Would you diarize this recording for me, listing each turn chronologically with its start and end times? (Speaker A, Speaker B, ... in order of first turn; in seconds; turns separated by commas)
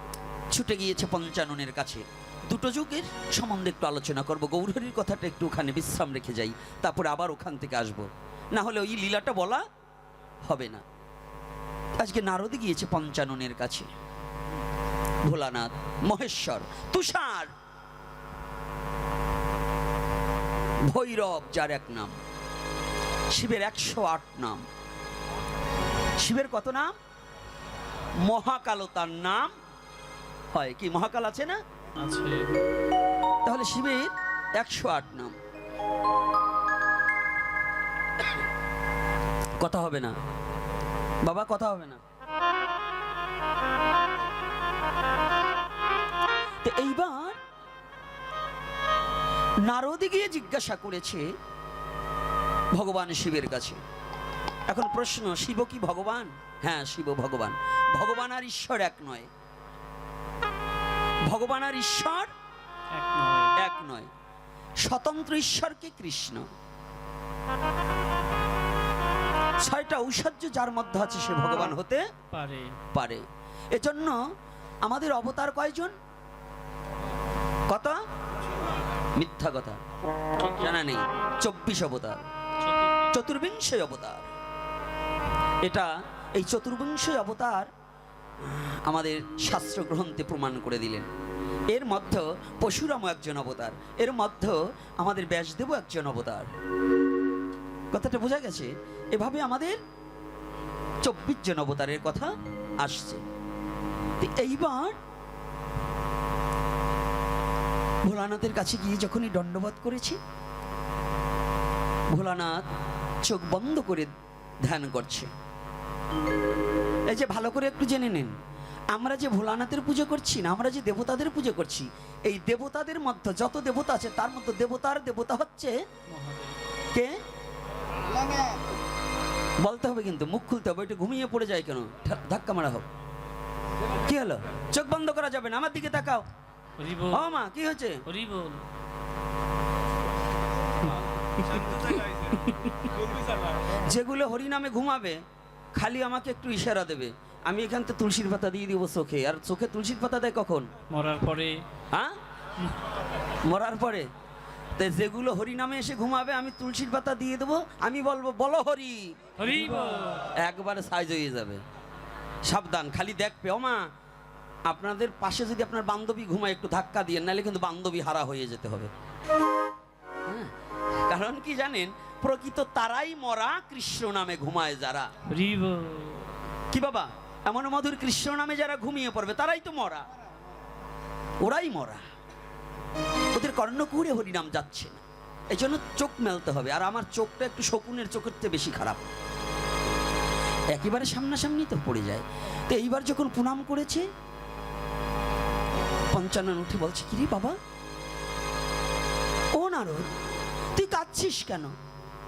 Speaker A: 0.5-9.6, Speaker A: 10.4-10.8, Speaker A: 12.0-13.9, Speaker A: 15.3-17.5, Speaker A: 20.9-22.2, Speaker A: 23.3-24.6, Speaker A: 26.2-26.9, Speaker A: 28.2-29.5, Speaker A: 30.5-31.6, Speaker B: 32.0-32.5, Speaker A: 33.5-35.4, Speaker A: 39.6-40.1, Speaker A: 41.2-42.0, Speaker A: 46.6-47.4, Speaker A: 49.7-51.2, Speaker A: 52.7-53.8, Speaker A: 54.7-59.3, Speaker A: 61.3-62.3, Speaker B: 62.9-63.5, Speaker A: 63.6-64.1, Speaker A: 64.8-66.4, Speaker A: 69.6-72.0, Speaker B: 72.3-72.8, Speaker A: 72.9-74.2, Speaker A: 74.9-75.9, Speaker A: 77.7-78.0, Speaker A: 79.2-79.8, Speaker B: 80.4-80.7, Speaker A: 80.6-82.2, Speaker B: 82.6-83.1, Speaker A: 83.1-84.3, Speaker A: 85.7-87.7, Speaker A: 88.4-91.1, Speaker A: 91.7-96.5, Speaker A: 97.9-99.8, Speaker A: 101.0-102.3, Speaker A: 102.8-103.2, Speaker A: 104.2-105.0, Speaker A: 108.1-110.2, Speaker A: 112.1-112.6, Speaker A: 113.2-114.1, Speaker A: 114.7-115.3, Speaker A: 117.1-118.3, Speaker A: 118.9-125.7, Speaker B: 126.1-126.5, Speaker A: 129.6-132.8, Speaker A: 134.0-136.2, Speaker B: 136.8-137.3, Speaker A: 137.1-138.0, Speaker B: 138.1-138.6, Speaker B: 140.9-142.9, Speaker A: 141.8-142.0, Speaker A: 143.7-145.2, Speaker A: 145.8-150.7, Speaker B: 150.9-151.6, Speaker A: 153.4-154.1, Speaker A: 154.8-159.2, Speaker B: 159.4-160.3, Speaker A: 160.4-161.6, Speaker A: 162.5-163.8, Speaker A: 164.7-168.9, Speaker A: 171.1-175.1, Speaker B: 175.3-176.4, Speaker A: 176.7-180.0, Speaker A: 181.4-182.0, Speaker A: 183.3-189.1, Speaker A: 190.7-194.1, Speaker A: 196.1-197.6, Speaker A: 199.6-200.1, Speaker A: 200.7-201.7